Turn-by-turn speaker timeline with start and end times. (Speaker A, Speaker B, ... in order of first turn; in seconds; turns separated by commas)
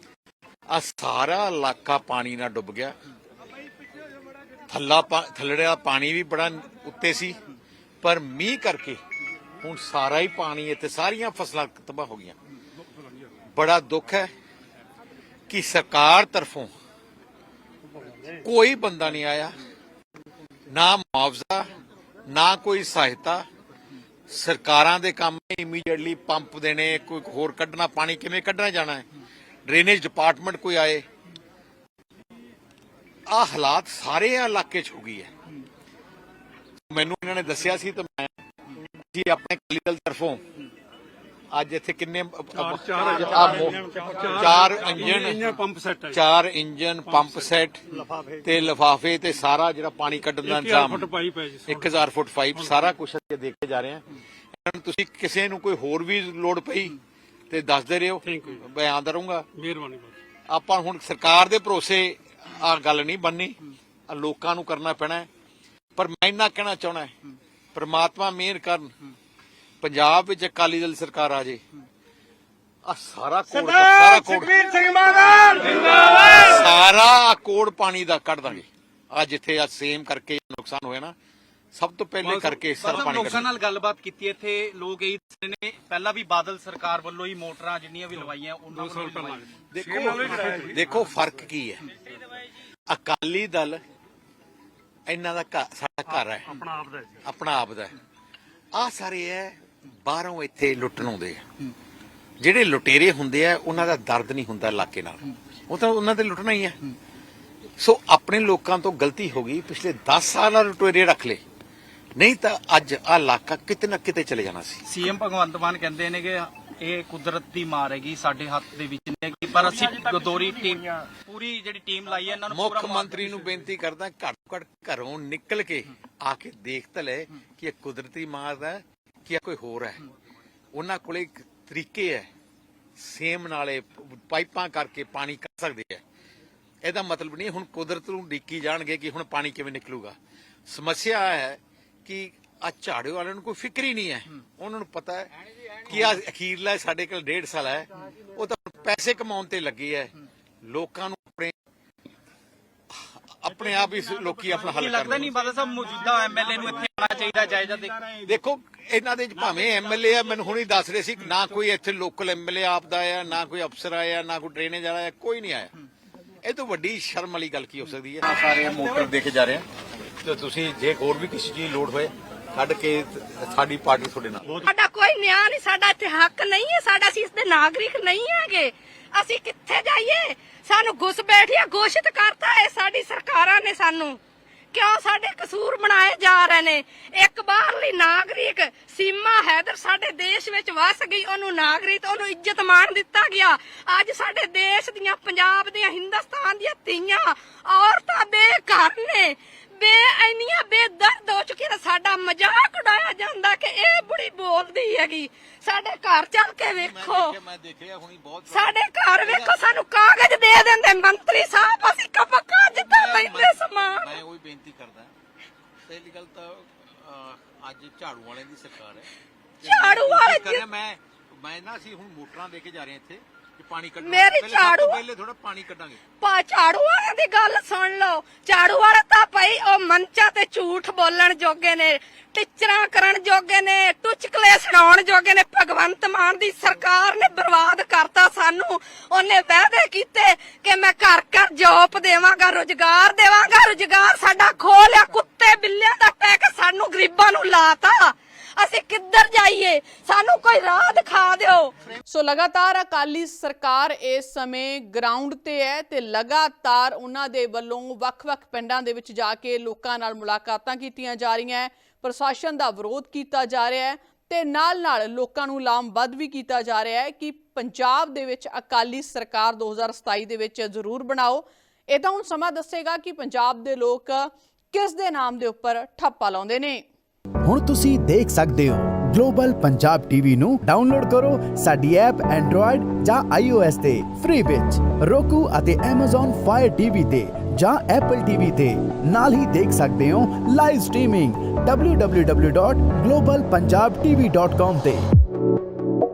Speaker A: 0.7-2.9, Speaker A: 4.7-7.4, Speaker A: 8.0-9.0, Speaker A: 9.6-12.4, Speaker A: 13.5-14.3, Speaker A: 15.5-16.7, Speaker A: 18.4-19.6, Speaker A: 20.7-21.7, Speaker A: 22.3-23.4, Speaker A: 24.3-29.1, Speaker A: 29.7-31.1, Speaker A: 33.3-35.3, Speaker A: 36.9-38.4, Speaker A: 39.1-40.4, Speaker A: 41.5-45.5, Speaker B: 44.0-44.4, Speaker B: 45.0-46.1, Speaker A: 46.1-47.8, Speaker A: 48.4-51.1, Speaker B: 50.8-51.6, Speaker A: 51.7-54.1, Speaker A: 54.6-57.0, Speaker A: 57.5-59.5, Speaker B: 59.6-60.1, Speaker A: 60.5-65.3, Speaker A: 66.0-67.1, Speaker A: 67.7-68.9, Speaker A: 69.8-71.6, Speaker A: 72.9-74.7, Speaker C: 75.1-76.0, Speaker A: 76.1-81.2, Speaker A: 81.7-83.5, Speaker C: 82.2-89.5, Speaker A: 89.7-91.8, Speaker A: 92.9-93.8, Speaker A: 95.1-96.6, Speaker A: 97.2-98.0, Speaker A: 98.7-101.4, Speaker A: 102.4-106.8, Speaker A: 107.8-111.4, Speaker A: 112.2-114.8, Speaker C: 114.9-123.2, Speaker A: 122.5-130.1, Speaker A: 130.7-132.3, Speaker A: 133.0-136.0, Speaker A: 136.8-140.2, Speaker A: 140.7-145.3, Speaker A: 145.8-150.1, Speaker A: 150.6-151.6, Speaker A: 153.1-155.4, Speaker C: 154.8-158.0, Speaker A: 158.2-165.7, Speaker A: 166.4-169.7, Speaker A: 170.2-174.6, Speaker D: 174.7-184.2, Speaker D: 184.7-207.4, Speaker A: 206.8-209.6, Speaker D: 208.5-214.2, Speaker A: 212.7-215.1, Speaker A: 215.9-219.1, Speaker D: 219.6-220.6, Speaker A: 219.6-226.0, Speaker D: 224.0-225.0, Speaker D: 226.2-251.7, Speaker E: 252.1-276.9, Speaker F: 277.4-295.0